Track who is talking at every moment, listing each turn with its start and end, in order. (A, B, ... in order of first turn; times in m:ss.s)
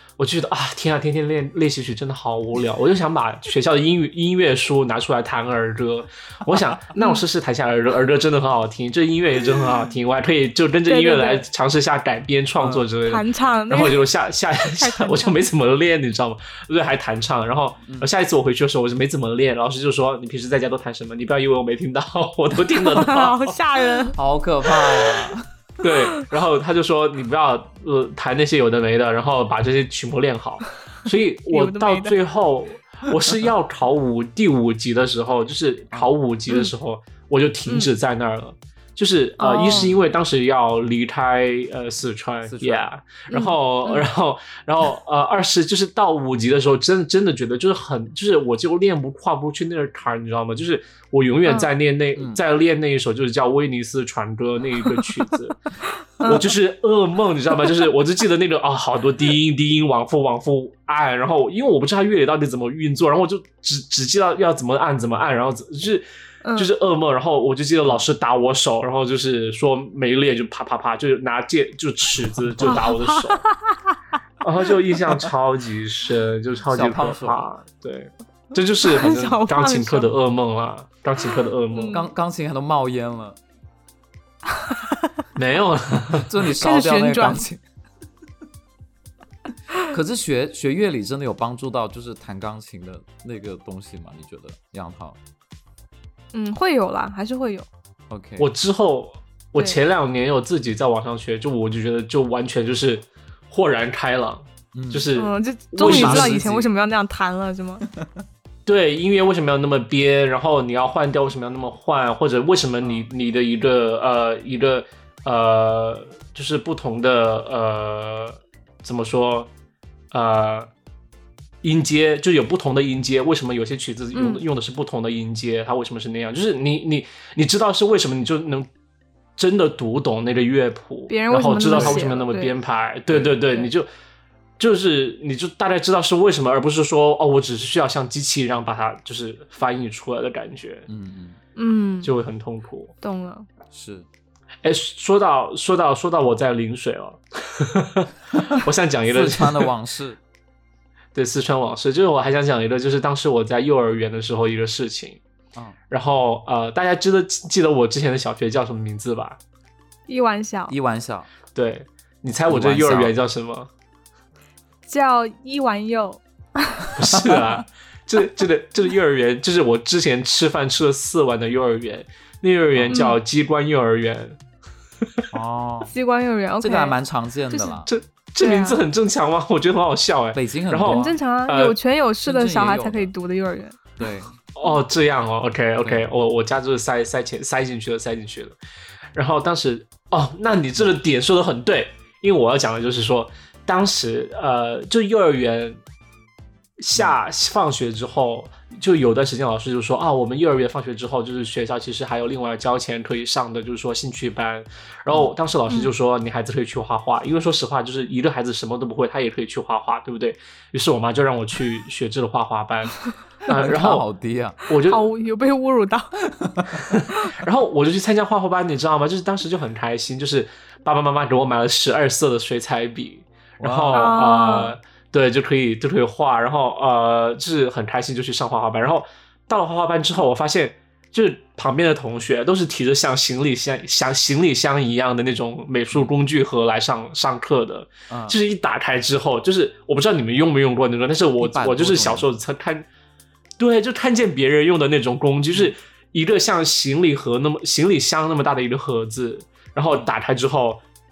0:00.2-0:23.6 A
0:07.0-0:07.2 B
0:10.9-0:11.4 B
0:12.6-0:12.8 C
0:13.1-0:14.0 B
0:14.8-0:15.4 B
0:17.8-0:18.1 C
0:22.8-0:24.2 B
0:24.2-0:25.5 C
0:25.8-0:55.6 A
0:31.5-0:32.2 B
0:39.4-0:39.9 B
0:42.4-0:42.8 C
0:43.3-0:44.1 B
0:52.2-0:52.4 C
0:55.9-0:56.5 B
0:56.2-1:13.4 A
1:06.4-1:06.7 B
1:12.6-1:14.0 B
1:14.4-1:22.0 A
1:16.7-1:17.4 C
1:18.8-1:20.1 B
1:21.7-1:22.1 B
1:21.9-1:23.4 C
1:24.5-1:25.1 B
1:25.3-1:26.3 A
1:26.2-1:27.6 C
1:26.6-1:27.4 B
1:29.8-1:35.2 C
1:36.3-1:37.7 B
1:38.1-1:38.5 C
1:38.4-1:46.6 A
1:44.7-1:45.1 C
1:45.2-1:47.8 B
1:45.8-1:46.7 C
1:47.9-1:48.2 C
1:48.6-1:59.5 A
1:52.8-1:53.1 C
2:00.1-2:00.7 A
2:01.6-2:08.7 A
2:04.1-2:04.4 B
2:09.4-2:13.9 A
2:11.1-2:12.5 B
2:11.7-2:12.0 C
2:13.1-2:13.4 C
2:14.6-2:20.9 A
2:20.9-2:21.4 C
2:21.6-2:22.1 B
2:22.0-2:22.9 A
2:23.0-2:23.5 B
2:23.7-2:24.1 C
2:24.6-2:29.7 A
2:29.1-2:30.2 C
2:31.1-2:35.2 A
2:35.9-2:39.4 A
2:40.1-2:40.8 B
2:40.7-2:41.3 C
2:41.5-2:43.7 A
2:42.5-2:43.1 C
2:44.8-2:46.9 B
2:47.0-2:54.4 A
2:47.2-2:47.6 C
2:52.7-2:53.0 C
2:52.9-2:53.2 B
2:55.3-2:55.9 C
2:55.9-2:56.9 B
2:56.6-2:57.9 C
2:57.5-2:57.8 B
2:57.8-3:01.8 A
2:58.4-2:58.8 B
3:00.3-3:01.2 C
3:00.9-3:03.8 B
3:02.2-3:03.1 C
3:04.0-3:04.3 C
3:04.5-3:08.6 A
3:05.8-3:06.0 C
3:09.1-3:15.8 A
3:16.8-3:34.0 A
3:33.5-3:34.6 C
3:34.7-3:35.0 A
3:34.9-3:36.1 B
3:36.3-3:36.9 C
3:36.8-4:02.9 A
3:43.6-3:44.2 C
3:43.9-3:44.7 B
3:58.1-3:58.4 C
4:01.4-4:02.3 C
4:03.6-4:10.8 A